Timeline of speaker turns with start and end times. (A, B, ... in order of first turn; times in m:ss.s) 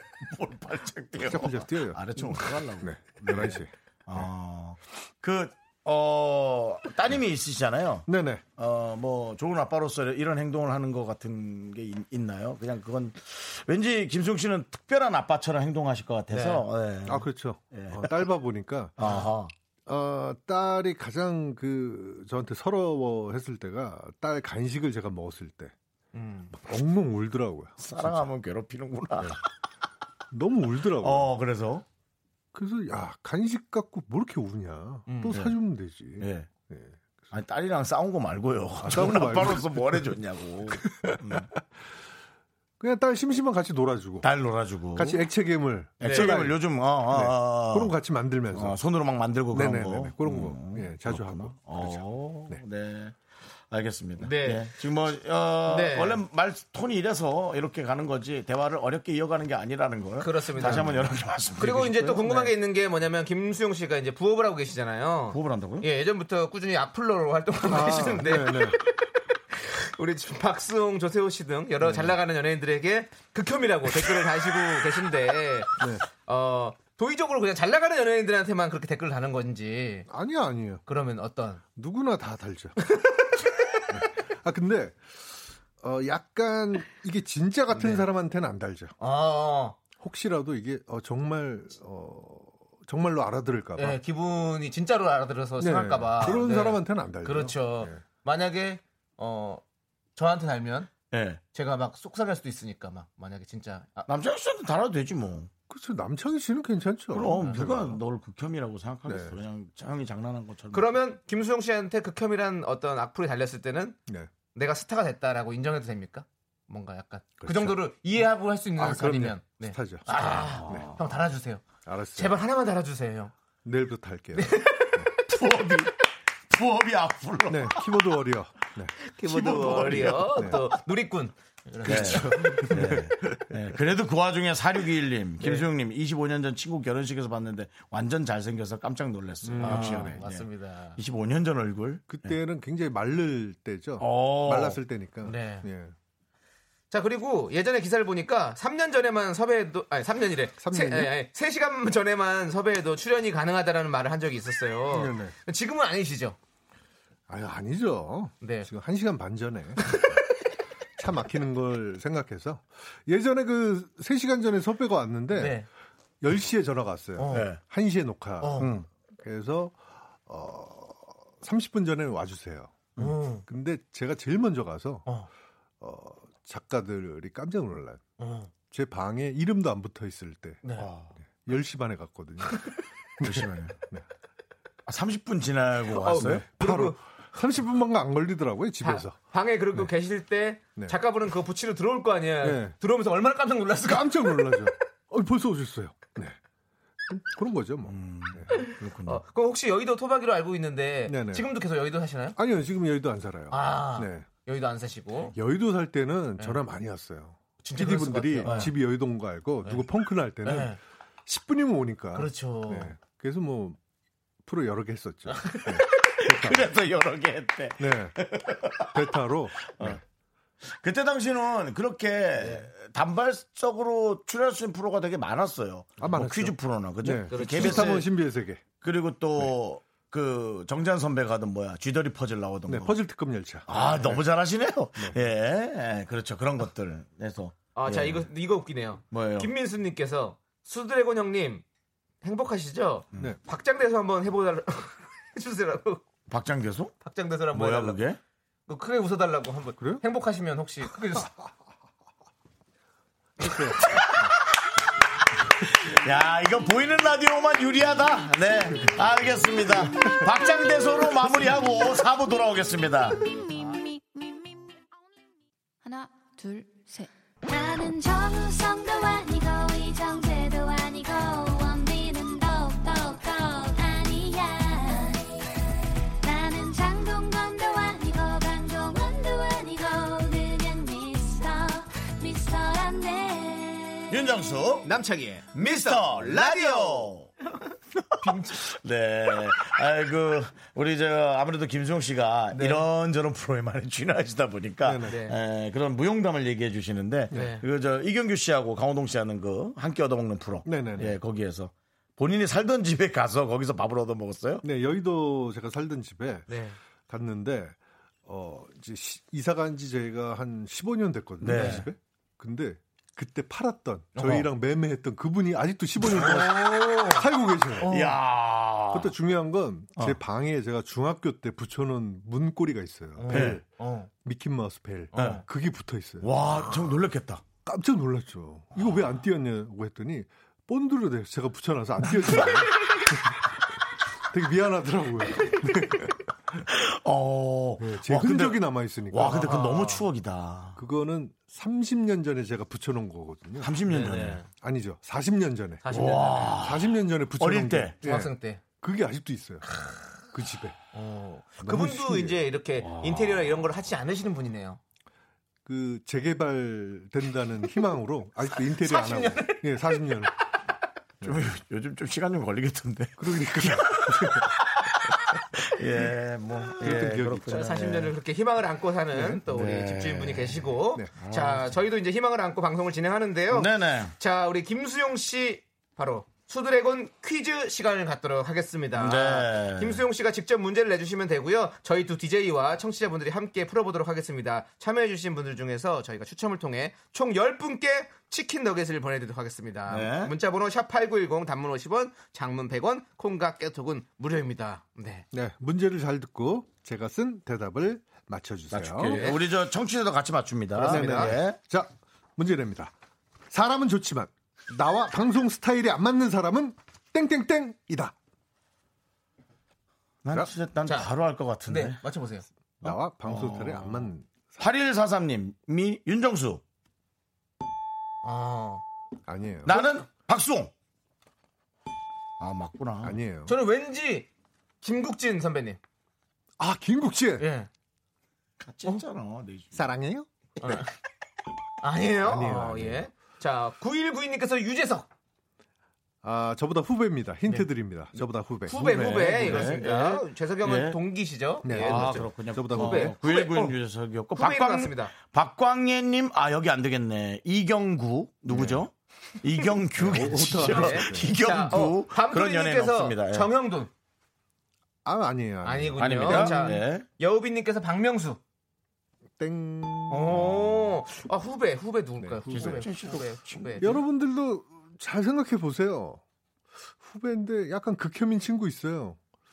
0:00.2-0:18.3 A
0:01.2-0:03.7 B
0:08.1-0:08.4 B
0:16.3-0:16.6 C
0:17.0-0:19.0 B
0:19.0-0:19.5 A
0:19.9-0:25.7 B
0:26.1-0:26.6 C
0:26.5-0:28.2 B
0:27.8-0:29.4 A
0:30.3-0:31.3 B
0:31.0-0:31.8 A
0:32.5-0:37.2 B
0:35.1-0:35.4 C
0:36.2-0:36.5 A
0:37.3-0:41.5 A
0:38.8-0:39.9 B
0:40.8-0:41.2 B
0:42.8-0:44.3 B
0:44.2-0:45.2 A
0:45.0-0:48.8 B
0:46.0-0:47.9 A
0:46.0-0:46.4 C
0:48.5-0:53.2 A
0:49.5-0:52.6 B
0:53.7-1:02.3 A
0:54.2-0:54.7 C
0:55.7-0:56.2 C
1:00.2-1:01.0 C
1:00.6-1:01.1 B
1:01.6-1:20.1 C
1:02.2-1:02.5 B
1:05.3-1:05.9 A
1:07.7-1:08.8 B
1:11.8-1:12.2 B
1:15.8-1:16.0 B
1:20.1-1:20.8 B
1:20.9-1:21.6 C
1:21.8-1:22.8 B
1:22.8-1:23.4 C
1:23.9-1:28.9 B
1:27.7-1:28.1 C
1:29.0-1:29.8 C
1:30.0-1:34.0 B
1:33.8-1:39.6 C
1:35.6-1:38.0 B
1:40.2-1:40.9 C
1:41.1-1:41.4 A
1:41.5-1:44.1 C
1:44.1-1:45.5 A
1:45.7-1:47.9 B
1:47.1-1:51.0 A
1:47.2-1:47.9 C
1:49.1-1:49.4 B
1:50.7-1:54.0 C
1:54.5-2:03.3 C
1:57.4-1:57.8 B
1:58.8-2:00.1 B
2:00.1-2:01.0 A
2:01.9-2:02.4 B
2:03.6-2:05.1 B
2:04.3-2:05.0 C
2:05.3-2:06.0 A
2:06.5-2:07.9 A
2:07.5-2:09.0 B
2:09.0-2:13.0 C
2:09.2-2:10.7 A
2:11.8-2:13.0 B
2:11.8-2:22.4 A
2:15.4-2:15.6 C
2:19.4-2:20.2 B
2:19.6-2:21.0 C
2:22.1-2:25.9 B
2:24.0-2:24.8 A
2:25.2-2:25.7 C
2:26.9-2:36.4 C
2:30.6-2:31.2 B
2:34.9-2:35.4 B
2:37.3-2:40.0 B
2:38.4-2:38.7 C
2:41.0-2:45.6 B
2:45.3-2:45.7 C
2:46.2-2:52.9 B
2:47.2-2:47.5 C
2:47.3-2:47.6 A
2:48.4-2:48.7 C
2:53.0-2:53.4 C
2:53.5-2:55.1 B
2:55.8-2:58.0 B
2:58.2-2:58.5 C
2:58.7-3:00.6 B
3:00.6-3:00.9 C
3:00.8-3:01.1 A
3:01.3-3:04.0 B
3:03.2-3:03.8 A
3:04.9-3:06.4 A
3:05.9-3:07.0 C
3:06.1-3:09.2 B
3:08.8-3:14.5 C
3:12.4-3:12.8 B
3:13.8-3:16.4 B
3:17.1-3:18.5 B
3:17.9-3:19.2 A
3:18.5-3:22.4 C
3:21.1-3:21.5 B
3:22.4-3:24.3 B
3:23.5-3:25.4 C
3:25.3-3:33.8 B
3:27.6-3:28.8 C
3:28.4-3:28.7 A
3:30.4-3:30.8 C
3:32.1-3:33.0 C
3:34.4-3:36.7 B
3:35.3-3:35.6 C
3:35.7-3:40.0 A
3:37.8-3:38.2 B
3:38.9-3:40.0 B
3:40.6-3:48.1 A
3:42.4-3:42.7 C
3:46.0-3:48.6 B
3:47.3-3:48.1 C
3:48.8-3:53.0 A
3:52.7-3:54.2 B
3:53.7-3:58.3 A
3:57.8-4:01.6 C
3:59.1-3:59.5 A
4:02.2-4:06.0 C
4:06.3-4:06.9 A
4:07.0-4:08.0 C
4:07.5-4:08.2 A
4:08.7-4:11.3 C
4:13.4-4:13.8 B
4:13.8-4:14.3 A
4:15.7-4:23.2 A
4:20.4-4:21.0 D
4:23.1-4:24.8 D
4:25.8-4:27.1 D
4:27.5-4:35.4 E
4:36.2-4:44.2 E
4:44.1-4:44.9 A
4:44.8-4:47.1 C
4:45.6-4:47.3 A
4:48.1-5:04.6 A
4:48.2-4:48.6 C
4:52.5-4:52.8 C
4:54.8-4:55.1 B
4:55.1-4:55.4 C
4:57.3-4:57.6 C
5:00.6-5:01.2 B
5:04.6-5:06.5 B
5:06.5-5:06.8 C
5:07.1-5:17.9 B
5:11.4-5:11.9 A
5:11.5-5:11.8 C
5:14.2-5:14.5 C
5:16.2-5:16.6 A
5:16.6-5:17.2 C
5:17.8-5:18.2 C
5:17.9-5:19.2 A
5:18.9-5:26.3 B
5:23.2-5:24.1 C
5:23.3-5:23.6 A
5:25.2-5:25.4 C
5:25.2-5:25.4 A
5:26.2-5:27.4 A
5:27.6-5:33.4 B
5:34.3-5:36.1 B
5:36.6-5:40.8 A
5:37.8-5:39.5 B
5:39.2-5:40.1 C
5:40.8-5:43.8 B
5:43.6-5:44.4 A
5:43.9-5:44.5 C
5:44.5-5:49.8 B
5:45.8-5:46.6 C
5:45.9-5:48.0 A
5:48.0-5:48.6 C
5:49.6-5:50.2 C
5:50.3-5:50.8 B
5:50.9-5:54.8 C
5:51.6-5:52.5 B
5:52.8-5:53.7 A
5:55.6-6:00.3 B
5:58.7-6:00.0 C
6:01.2-6:01.5 B
6:01.2-6:08.1 A
6:03.2-6:04.5 B
6:06.8-6:07.5 B
6:07.0-6:35.3 C
6:09.1-6:09.4 B
6:09.5-6:11.8 A
6:13.5-6:14.2 A
6:19.0-6:20.0 A
6:29.9-6:30.3 A
6:35.3-6:39.3 B
6:38.7-6:41.6 A
6:39.0-6:39.4 C
6:40.8-6:41.4 C
6:40.8-6:42.9 B
6:43.5-6:48.2 B
6:50.2-6:52.0 A
6:50.8-6:51.1 C
6:51.6-6:52.5 C
6:52.8-6:54.6 B
6:52.8-6:56.6 A
6:58.2-6:58.8 C
6:59.3-6:59.9 B
6:59.6-7:00.7 A
7:02.4-7:03.2 A
7:03.0-7:03.5 B
7:03.5-7:04.3 C
7:04.8-7:05.8 C
7:06.6-7:07.5 B
7:07.4-7:07.7 C
7:08.6-7:09.9 A
7:09.7-7:10.3 B
7:10.6-7:10.9 C
7:11.8-7:15.1 C
7:12.2-7:13.1 B
7:16.2-7:19.8 B
7:18.7-7:23.8 C
7:19.0-7:21.0 A
7:21.6-7:23.1 B
7:21.8-7:33.5 A
7:24.4-7:25.1 C
7:28.5-7:28.8 B
7:30.0-7:31.4 B
7:30.2-7:33.9 C
7:35.0-7:36.8 B
7:35.6-7:38.4 C
7:36.0-7:37.0 A
7:39.4-7:40.5 B
7:40.1-7:44.0 C
7:40.3-7:40.7 A
7:42.2-7:43.0 B
7:42.5-7:44.0 A
7:43.8-7:46.2 B
7:47.0-7:49.2 B